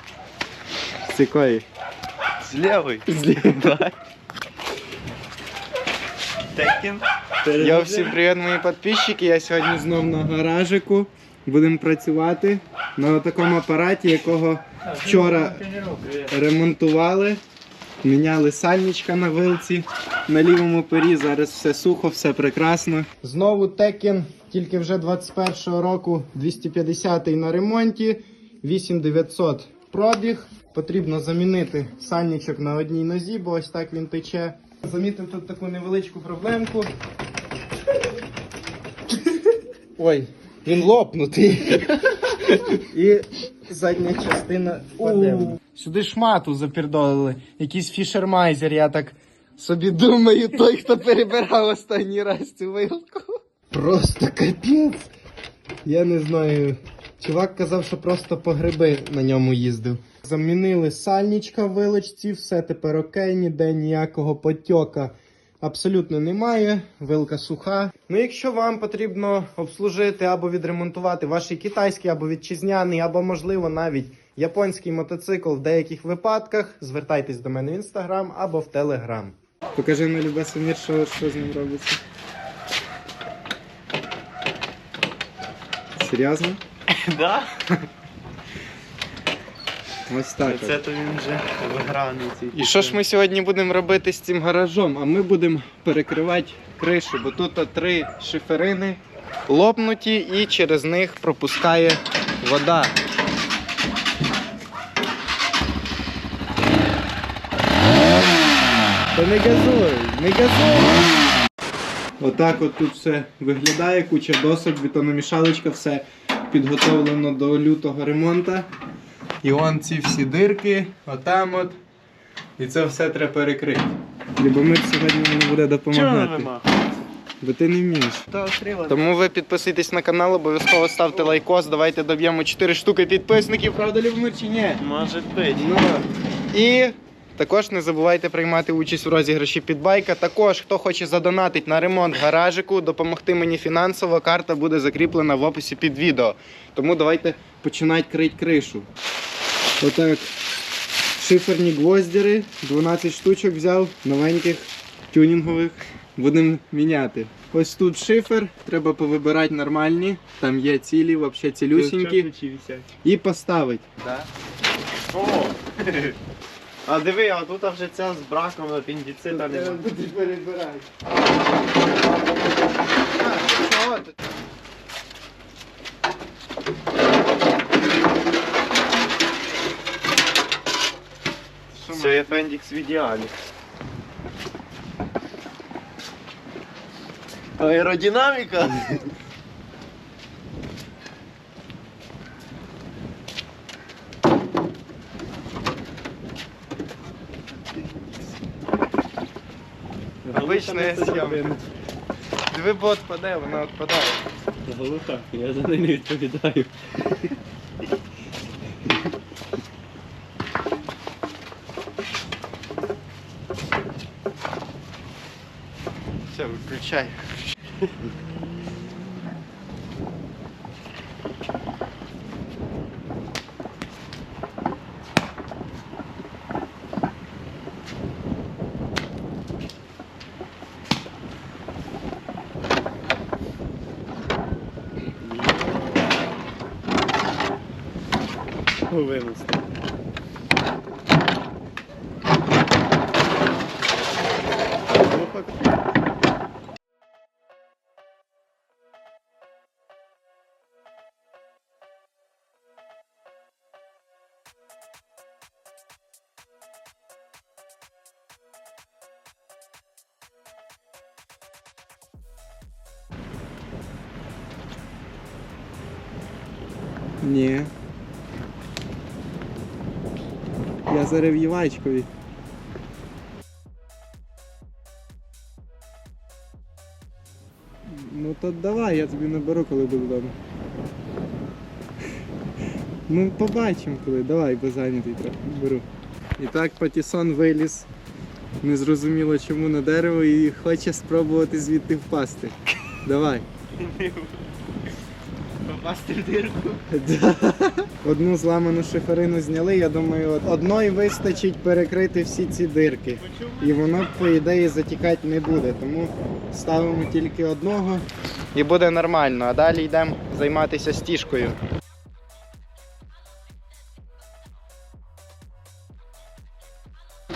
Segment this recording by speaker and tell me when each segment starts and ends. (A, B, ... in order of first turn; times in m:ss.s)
0:01.1-0:01.6 A
0:02.4-0:03.9 B
0:03.1-0:03.8 A
0:06.5-0:08.2 B
0:07.6-0:15.6 A
0:14.9-0:16.3 B
0:16.3-0:17.4 A
0:18.0-0:36.9 A
0:40.0-0:41.9 A
0:42.5-0:55.1 A
0:55.8-1:22.0 A
1:26.0-1:26.6 A
1:26.9-1:27.5 B
1:30.1-1:30.8 A
1:30.4-1:33.0 B
1:32.5-1:43.0 A
1:49.1-1:51.1 A
1:52.2-1:58.7 A
1:59.4-2:01.8 A
2:02.6-2:06.5 A
2:05.9-2:06.7 B
2:07.4-2:08.2 A
2:08.3-2:09.1 B
2:08.9-2:14.8 A
2:14.8-2:15.7 B
2:15.6-2:28.9 A
2:29.8-2:30.3 A
2:31.2-2:42.3 A
2:41.7-2:42.9 B
2:43.0-2:44.3 A
2:45.1-2:46.2 B
2:46.8-2:49.8 B
2:49.3-2:50.9 A
2:53.0-2:54.1 A
3:01.7-3:02.5 A
3:01.9-3:03.3 B
3:07.6-3:09.1 B
3:20.2-3:21.6 B
3:20.3-3:21.6 A
3:22.5-3:24.2 A
3:24.6-3:27.3 B
3:36.3-3:37.5 A
3:55.2-3:56.2 B
3:58.9-3:59.7 B
4:04.9-4:05.7 B
4:27.2-4:27.7 A
4:30.9-4:32.1 A
4:37.8-4:40.4 A
4:43.1-4:45.8 A
4:46.4-4:47.9 A
4:48.6-4:53.4 A
4:53.8-4:54.4 B
4:55.6-4:56.9 B
4:56.9-5:11.6 A
5:03.1-5:04.1 B